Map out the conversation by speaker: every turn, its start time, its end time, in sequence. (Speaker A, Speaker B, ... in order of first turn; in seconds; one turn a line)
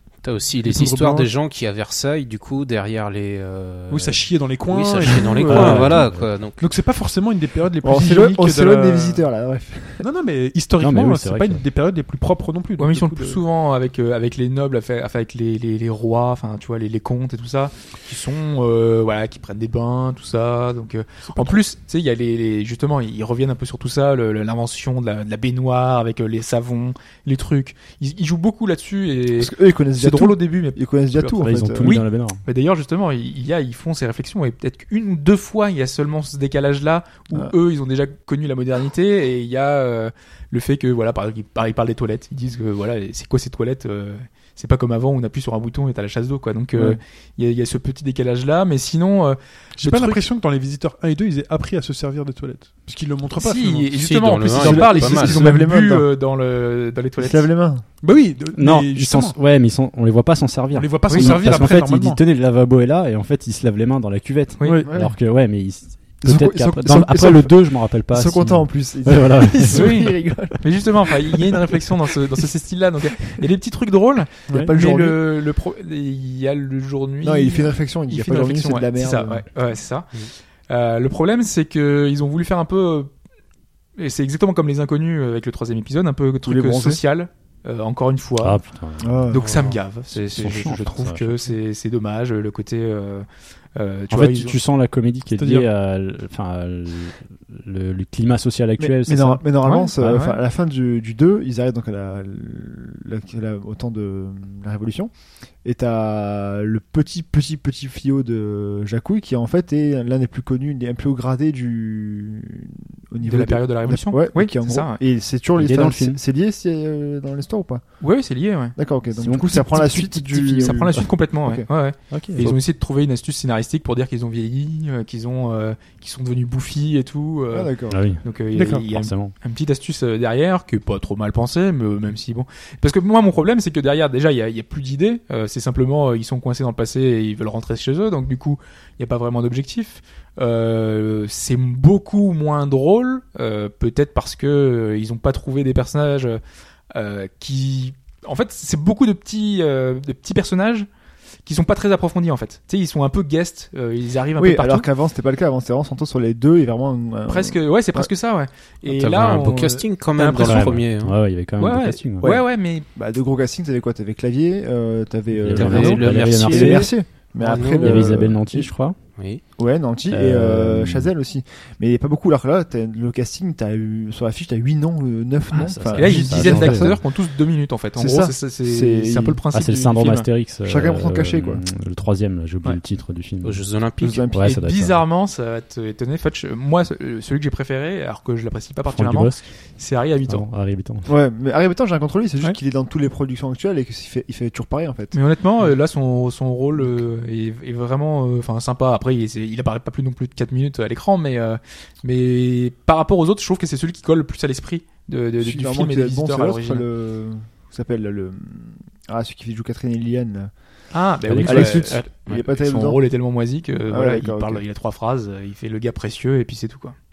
Speaker A: 0.2-6.6
Speaker B: 0.6-1.3
Speaker B: 3.9-9.2
Speaker C: 5.4-6.3
Speaker D: 7.8-10.1
Speaker B: 10.0-13.4
Speaker C: 10.8-11.6
Speaker E: 12.8-50.2
Speaker B: 21.2-21.6
Speaker D: 29.4-32.0
Speaker C: 31.4-32.4
Speaker B: 49.8-54.0
Speaker E: 53.3-57.5
Speaker A: 54.0-55.4
Speaker D: 54.5-56.1
Speaker D: 57.2-57.9
Speaker B: 58.0-59.4
Speaker C: 58.5-70.1
Speaker B: 60.7-62.2
Speaker E: 61.1-61.4
Speaker E: 64.6-64.9
Speaker B: 64.6-64.9
Speaker D: 64.8-65.2
Speaker D: 66.2-71.8
Speaker E: 69.7-83.1
Speaker D: 74.5-75.2
Speaker D: 77.2-79.5
Speaker E: 84.0-88.6
Speaker D: 86.4-87.0
Speaker C: 88.4-89.3
Speaker D: 89.0-89.5
Speaker E: 89.3-94.6
Speaker A: 89.4-89.8
Speaker C: 90.1-91.3
Speaker C: 94.1-99.4
Speaker B: 95.3-95.7
Speaker D: 98.8-105.1
Speaker E: 99.6-100.4
Speaker D: 105.6-118.0
Speaker E: 113.2-115.0
Speaker C: 115.5-116.2
Speaker E: 118.0-118.8
Speaker D: 118.7-121.7
Speaker C: 119.1-119.7
Speaker E: 119.3-150.9
Speaker C: 122.1-122.6
Speaker D: 127.5-128.1
Speaker C: 127.9-128.2
Speaker B: 128.5-128.8
Speaker C: 128.9-129.3
Speaker E: 151.4-154.9
Speaker D: 154.4-158.1
Speaker E: 157.3-160.9
Speaker A: 158.9-161.2
Speaker C: 160.3-162.3
Speaker E: 161.6-162.8
Speaker D: 162.9-168.8
Speaker C: 165.3-167.0
Speaker A: 165.5-168.3
Speaker C: 167.6-169.0
Speaker A: 169.2-169.4
Speaker D: 169.6-177.2
Speaker C: 170.1-171.1
Speaker C: 175.5-177.0
Speaker E: 175.9-180.3
Speaker D: 178.0-179.4
Speaker C: 179.5-183.7
Speaker D: 180.6-181.6
Speaker A: 183.4-184.2
Speaker D: 184.0-184.5
Speaker C: 184.3-185.0
Speaker E: 184.3-190.4
Speaker C: 188.9-189.5
Speaker C: 190.3-191.1
Speaker D: 191.1-195.2
Speaker E: 195.1-206.9
Speaker D: 205.4-210.5
Speaker E: 210.9-217.0
Speaker C: 211.2-211.9
Speaker D: 211.4-213.0
Speaker D: 213.9-214.6